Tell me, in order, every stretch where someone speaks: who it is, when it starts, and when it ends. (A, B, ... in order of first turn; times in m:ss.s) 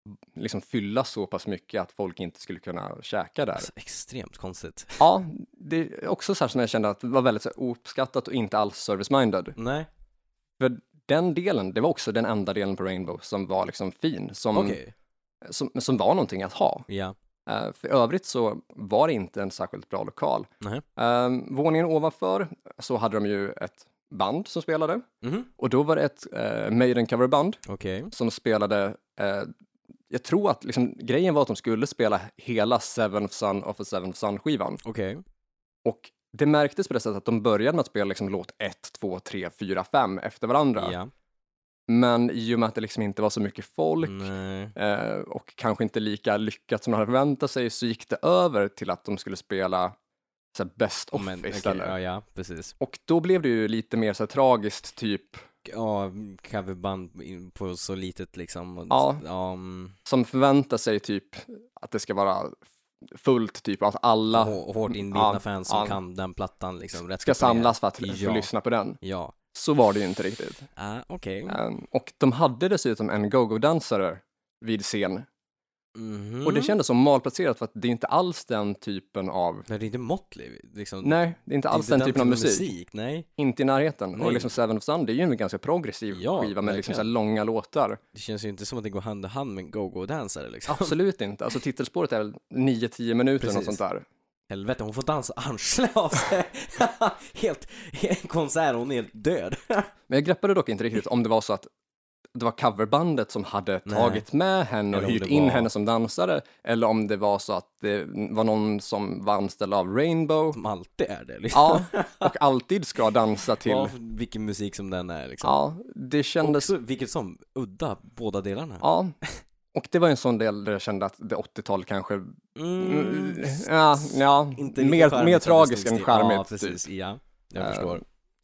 0:00.3-0:03.7 A
0:03.6-0:05.0 B
0:05.0-0:09.6 A
0:09.6-0:09.9 B
0:10.6-0:14.8 A
0:14.5-0:14.9 B
0:15.4-0:16.9 A
0:16.9-0:17.2 B
0:17.4-0:25.0 A
0:25.2-0:25.5 B
0:25.6-0:27.6 A
0:27.6-0:28.1 B
0:28.1-0:29.5 A
0:30.1-0:34.8 A
0:34.8-0:35.2 B
0:35.8-0:41.0 A
0:40.8-0:41.1 B
0:41.9-0:49.9 A
0:44.0-0:44.7 B
0:50.5-0:51.9 A
0:51.1-0:52.8 B
0:52.8-0:55.4 A
0:55.6-1:00.0 B
0:58.9-0:59.2 A
1:00.0-1:06.0 A
1:04.3-1:08.5 B
1:07.2-1:09.0 A
1:09.0-1:09.4 B
1:09.5-1:10.7 A
1:10.8-1:11.6 B
1:11.5-1:15.2 A
1:15.9-1:16.7 B
1:16.4-1:19.7 A
1:19.7-1:21.2 B
1:21.0-1:22.7 A
1:21.7-1:23.3 B
1:23.4-1:28.0 A
1:24.1-1:24.5 B
1:26.1-1:27.1 B
1:28.1-1:31.0 B
1:30.7-1:34.0 A
1:33.4-1:33.8 B
1:34.5-1:39.9 B
1:40.1-1:41.7 A
1:42.4-1:50.6 A
1:43.9-1:44.2 B
1:44.9-1:45.7 B
1:50.5-1:52.3 B
1:51.5-1:53.9 A
1:53.6-1:55.6 B
1:55.4-1:56.7 A
1:56.4-1:59.4 B
1:58.8-1:59.1 A
1:59.7-2:06.8 A
2:02.5-2:08.0 B
2:07.6-2:08.0 A